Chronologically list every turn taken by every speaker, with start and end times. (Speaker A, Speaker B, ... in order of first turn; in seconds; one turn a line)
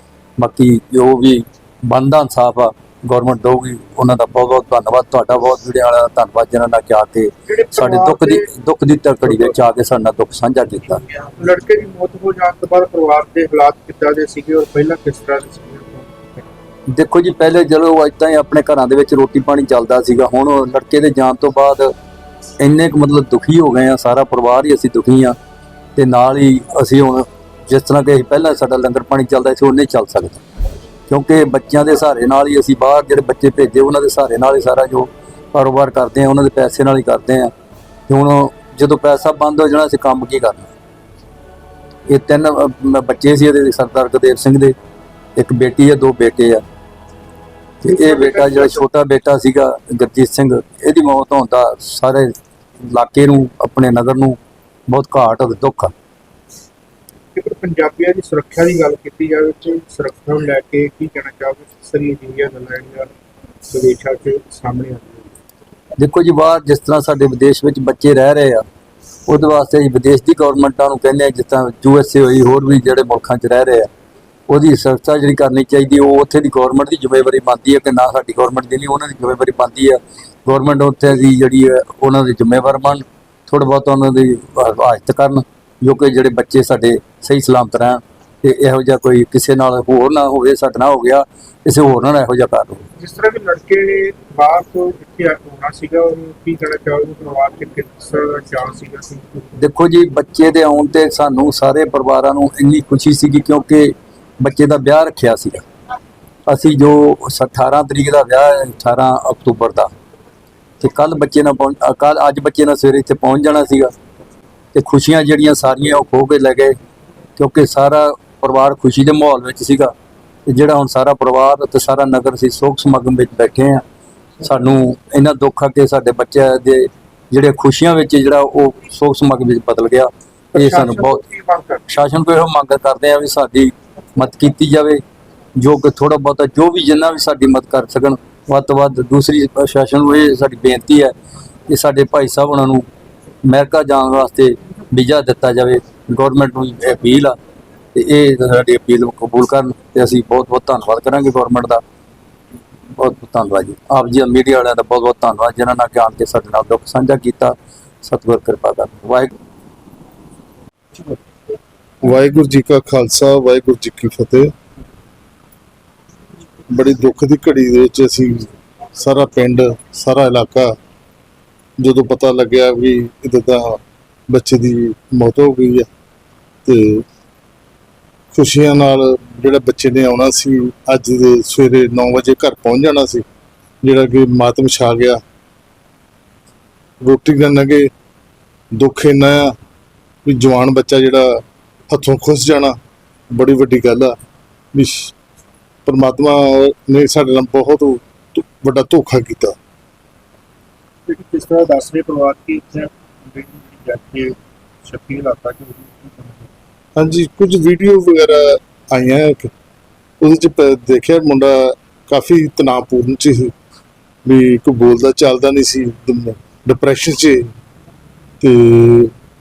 Speaker A: 0.4-11.0
Speaker B: 7.5-8.5
Speaker B: 9.3-9.6
Speaker B: 11.2-16.5
Speaker A: 16.9-21.9
Speaker A: 22.6-25.4
Speaker A: 25.9-30.4
Speaker A: 31.1-37.5
Speaker A: 38.1-40.7
Speaker A: 42.1-44.7
Speaker A: 45.4-46.6
Speaker A: 47.8-54.4
Speaker B: 47.8-48.8
Speaker A: 54.9-55.9
Speaker B: 57.3-63.1
Speaker B: 63.7-65.3
Speaker A: 66.0-68.6
Speaker A: 69.3-73.9
Speaker A: 74.5-92.8
Speaker B: 93.0-99.5
Speaker A: 99.6-105.6
Speaker A: 106.5-109.9
Speaker A: 110.8-113.9
Speaker A: 114.7-116.7
Speaker A: 117.4-119.9
Speaker A: 120.5-123.8
Speaker A: 124.4-131.2
Speaker B: 130.5-131.8
Speaker A: 131.9-135.0
Speaker A: 135.6-141.1
Speaker A: 141.7-142.8
Speaker A: 143.4-147.3
Speaker A: 147.9-151.8
Speaker A: 153.0-159.3
Speaker C: 162.0-164.5
Speaker C: 166.7-170.7
Speaker C: 171.8-175.9
Speaker C: 176.6-177.0
Speaker C: 178.3-183.2
Speaker C: 183.8-185.2
Speaker C: 187.0-187.9
Speaker C: 188.7-189.5
Speaker C: 190.2-192.7
Speaker C: 193.3-194.1
Speaker C: 194.7-195.1
Speaker C: 195.8-199.6
Speaker B: 201.1-206.5
Speaker C: 207.0-209.5
Speaker C: 210.2-213.5
Speaker C: 214.2-217.5
Speaker C: 218.4-219.1